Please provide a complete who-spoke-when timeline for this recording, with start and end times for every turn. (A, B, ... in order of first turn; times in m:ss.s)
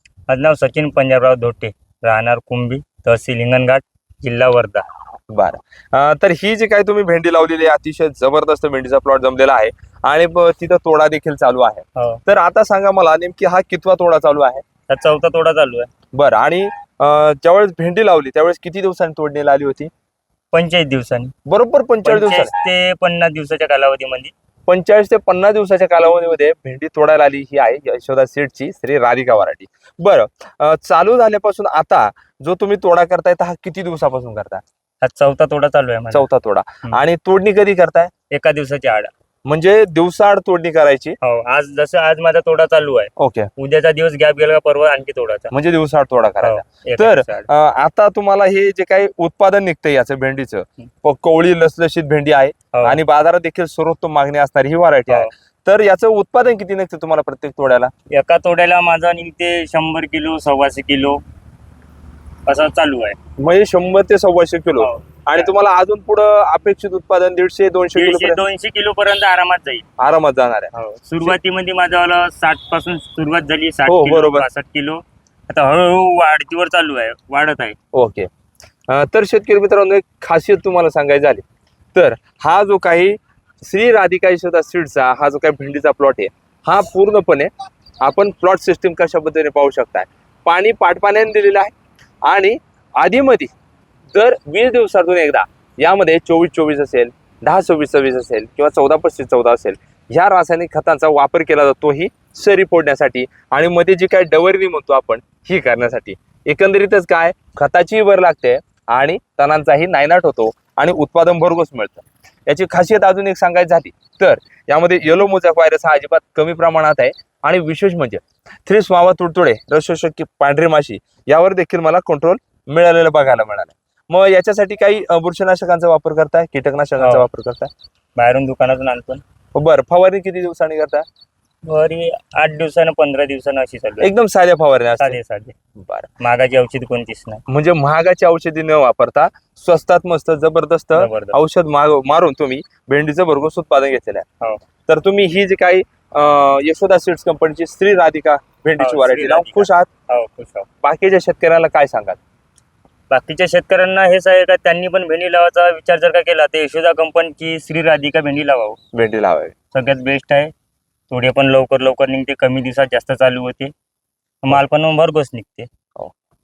0:00.3-0:04.9 A
0:05.3-0:14.6 B
0:12.0-0:12.2 A
0:14.9-0:15.9 A
0:16.1-0:19.9 B
0:20.5-0:21.3 A
0:21.5-0:22.5 B
0:22.0-0:24.3 A
0:24.7-0:34.6 B
0:35.0-0:36.3 A
0:36.1-0:38.1 B
0:38.3-0:39.1 A
0:39.5-0:41.2 B
0:41.2-0:45.5 A
0:43.2-0:43.5 B
0:45.5-0:57.9 B
0:46.4-0:47.5 A
0:52.7-0:53.0 A
0:58.1-1:01.2 A
1:02.5-1:03.2 A
1:03.4-1:08.4 B
1:04.8-1:05.5 A
1:08.0-1:09.8 A
1:10.0-1:11.4 B
1:10.7-1:17.8 A
1:13.9-1:14.5 B
1:17.9-1:18.3 B
1:18.9-1:21.4 B
1:21.9-1:27.5 B
1:28.0-1:31.7 B
1:32.3-1:33.5 B
1:34.1-2:07.7 B
2:07.0-2:07.3 A
2:08.2-2:09.2 A
2:09.6-2:11.0 B
2:11.7-2:14.1 A
2:14.0-2:15.2 B
2:15.0-2:15.5 A
2:15.8-2:16.1 B
2:16.2-2:17.4 A
2:17.5-2:24.3 B
2:21.0-2:21.4 A
2:24.9-2:29.9 B
2:28.8-2:30.7 A
2:30.8-2:32.2 B
2:33.1-2:38.8 A
2:38.9-2:39.5 B
2:39.7-2:40.5 A
2:41.1-2:43.7 A
2:44.4-2:45.7 A